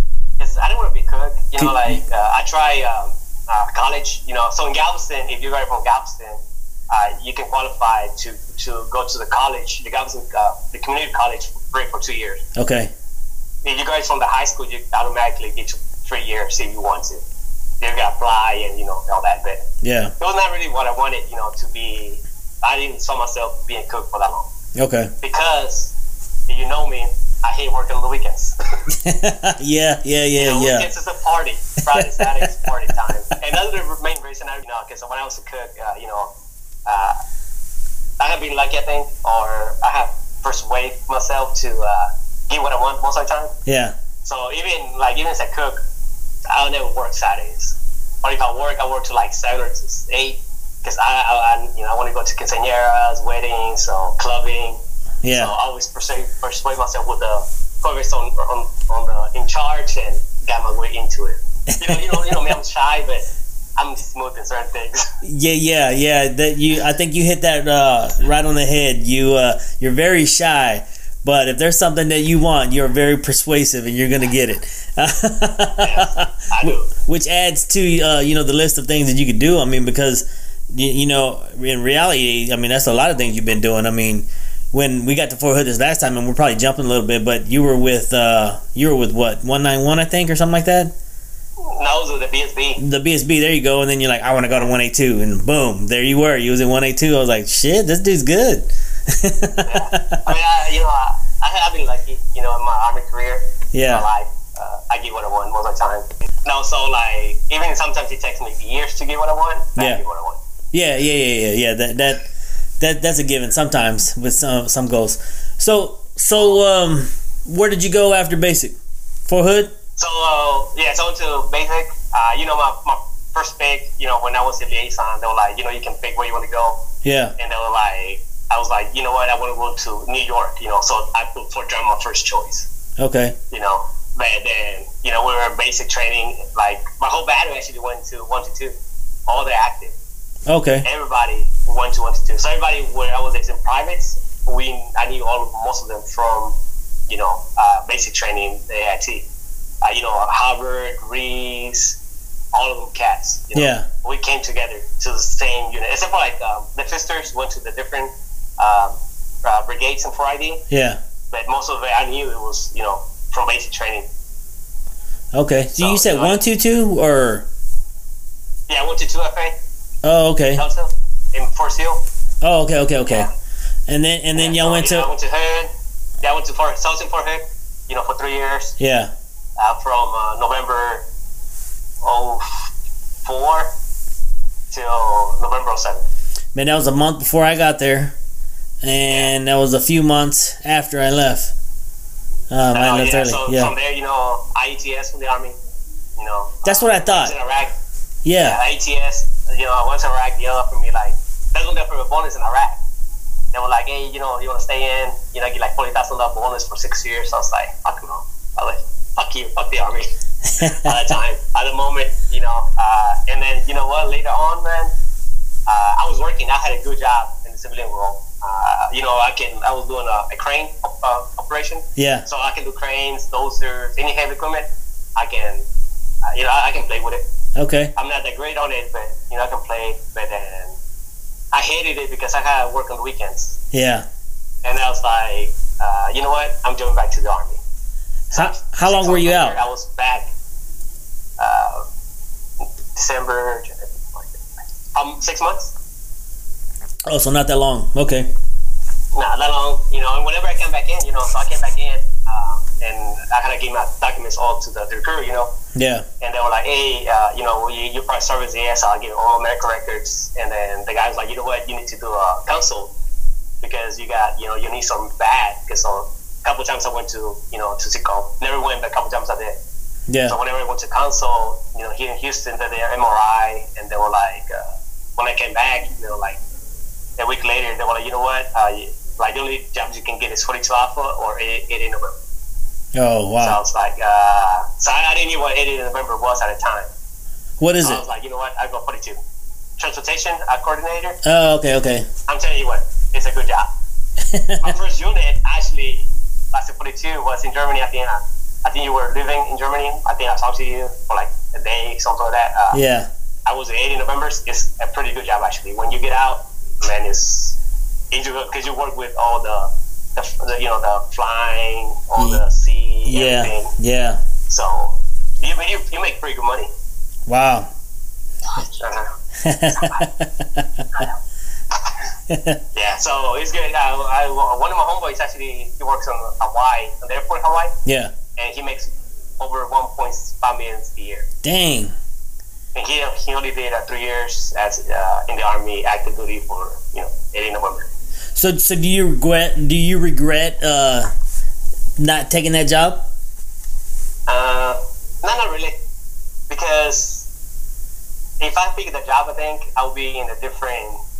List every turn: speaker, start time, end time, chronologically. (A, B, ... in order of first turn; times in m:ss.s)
0:00.4-0:06.4 A
0:01.6-0:02.0 B
0:06.9-0:12.4 A
0:12.6-0:12.9 B
0:13.6-0:17.2 A
0:17.8-0:19.7 A
0:19.8-0:20.1 B
0:20.2-0:24.5 A
0:24.8-0:25.1 B
0:25.2-0:25.9 A
0:26.5-0:28.8 A
0:28.9-0:30.9 B
0:30.4-0:36.3 A
0:31.9-0:32.5 B
0:36.9-0:37.2 A
0:38.2-0:43.5 A
0:43.7-0:43.9 B
0:44.2-0:45.8 A
0:46.5-1:03.2 A
0:55.2-0:55.5 B
1:01.7-1:02.5 B
1:03.8-1:05.1 A
1:05.2-1:30.9 B
1:15.8-1:16.9 A
1:31.6-1:32.8 A
1:32.8-1:40.2 B
1:39.6-1:50.4 A
1:43.7-1:44.0 B
1:50.7-1:52.3 B
1:52.8-1:58.8 B
1:59.3-1:59.8 B
2:00.0-2:06.8 A
2:07.0-2:07.3 B
2:07.4-2:12.7 A
2:13.0-2:13.4 B
2:13.5-2:18.8 A
2:19.3-2:20.0 A
2:20.5-2:20.9 B
2:20.8-2:26.6 A
2:27.1-2:29.2 A
2:29.8-2:32.0 A
2:32.5-2:40.6 A
2:33.6-2:33.9 B
2:40.7-2:41.0 B
2:41.3-2:44.1 A
2:45.3-2:47.5 B
2:45.7-2:46.4 A
2:48.7-2:49.6 A
2:50.0-2:50.6 B
2:50.6-2:52.0 A
2:52.4-2:53.3 B
2:53.9-2:55.1 B
2:54.4-2:55.7 A
2:56.2-2:58.8 A
2:58.8-2:59.1 B
2:59.6-3:01.0 A
3:02.0-3:02.7 A
3:03.2-3:03.7 A
3:04.7-3:06.0 A
3:06.6-3:08.2 B
3:08.8-3:11.5 B
3:12.5-3:13.7 B
3:12.7-3:15.6 A
3:16.2-3:17.7 A
3:16.6-3:17.4 B
3:18.2-3:18.6 B
3:18.4-3:22.8 A
3:23.5-3:30.1 A
3:30.6-3:31.0 B
3:30.6-3:34.9 A
3:35.7-3:45.6 A
3:42.0-3:42.2 B
3:46.3-3:47.2 A
3:47.6-3:47.9 B
3:48.0-3:50.8 A
3:51.5-3:53.6 A
3:53.7-3:54.1 B
3:54.6-3:57.6 A
3:58.3-4:00.3 A
3:58.3-3:59.6 B
4:01.4-4:01.8 A
4:02.9-4:05.7 A
4:07.1-4:08.3 B
4:09.1-4:15.5 A
4:15.8-4:16.0 B
4:16.2-4:22.9 A
4:23.6-4:29.6 A
4:30.1-4:30.4 B
4:30.3-4:36.4 A
4:37.2-4:42.2 A
4:43.0-4:43.6 B
4:43.4-4:46.9 A
4:47.6-4:48.0 B
4:47.8-4:49.2 A
4:49.8-4:51.2 A
4:51.2-4:52.1 B
4:52.3-4:53.7 A
4:54.3-4:54.7 B
4:54.6-5:02.8 A
5:02.7-5:03.1 B
5:03.5-5:07.6 A
5:08.1-5:13.7 A
5:13.1-5:14.2 B
5:14.5-5:16.7 A
5:17.3-5:17.7 B
5:18.5-5:19.1 A
5:19.4-5:21.0 B
5:19.7-5:20.1 A
5:22.3-5:22.6 B
5:22.7-5:27.7 A
5:27.9-5:28.1 B
5:28.4-5:31.3 A
5:31.4-5:31.9 B
5:32.8-5:37.9 A
5:38.4-5:41.1 B
5:42.0-5:43.1 B
5:44.3-5:45.8 A
5:46.5-5:47.3 A
5:48.4-5:51.0 A